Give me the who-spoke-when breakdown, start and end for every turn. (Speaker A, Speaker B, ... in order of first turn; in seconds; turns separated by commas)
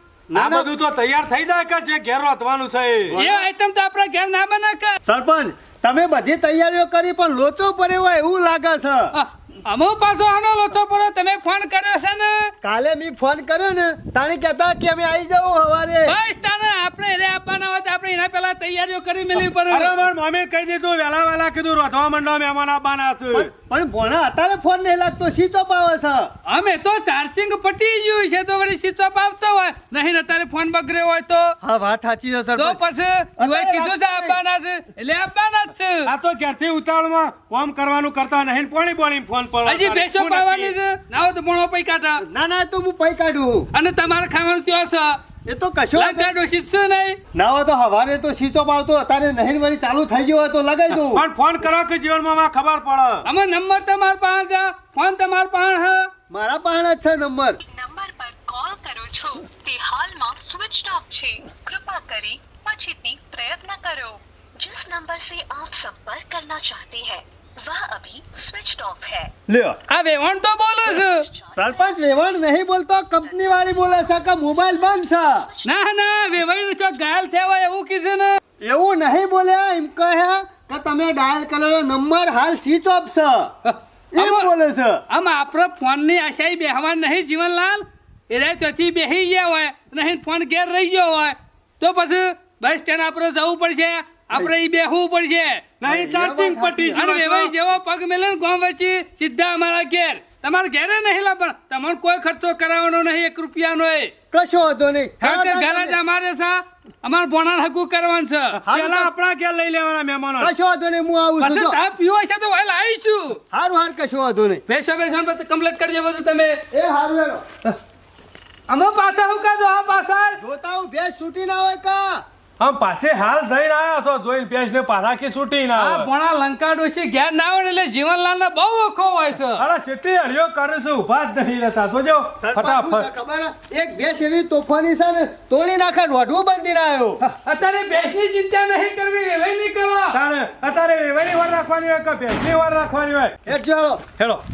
Speaker A: 0.3-0.7, Speaker B: 0.3-3.2, Speaker A: 3.1-3.5, Speaker C: 3.2-5.0, Speaker A: 5.0-9.1, Speaker C: 9.1-12.5, Speaker A: 12.6-16.2, Speaker C: 16.1-19.9, Speaker B: 19.6-23.5, Speaker A: 23.3-26.3, Speaker C: 26.5-31.6, Speaker A: 31.6-32.8, Speaker C: 32.6-36.1, Speaker A: 33.4-34.4, Speaker B: 36.1-40.8, Speaker C: 39.7-42.2, Speaker A: 42.2-43.7, Speaker C: 43.7-45.2, Speaker A: 45.5-46.3, Speaker C: 46.0-47.2, Speaker A: 47.4-51.2, Speaker B: 50.9-53.2, Speaker C: 53.2-56.1, Speaker A: 56.3-57.6, Speaker D: 57.7-69.3, Speaker A: 69.5-69.8, Speaker C: 69.9-71.3, Speaker D: 70.9-72.1, Speaker A: 71.5-75.5, Speaker D: 73.2-75.6, Speaker C: 75.7-78.4, Speaker A: 78.6-83.5, Speaker C: 83.7-84.5, Speaker A: 84.1-85.0, Speaker C: 85.1-95.6, Speaker B: 95.8-97.5, Speaker A: 95.8-97.0, Speaker C: 96.9-104.1, Speaker A: 104.3-106.0, Speaker C: 105.2-108.6, Speaker A: 108.7-109.1, Speaker B: 108.7-110.5, Speaker A: 110.4-111.8, Speaker C: 111.4-113.4, Speaker A: 113.5-114.6, Speaker C: 114.7-116.6, Speaker A: 116.7-117.4, Speaker C: 118.7-120.4, Speaker A: 120.4-122.2, Speaker B: 122.6-126.1, Speaker C: 125.8-129.6, Speaker B: 129.6-133.1, Speaker A: 132.4-137.2, Speaker C: 137.2-140.2, Speaker B: 140.1-143.3, Speaker A: 143.5-144.0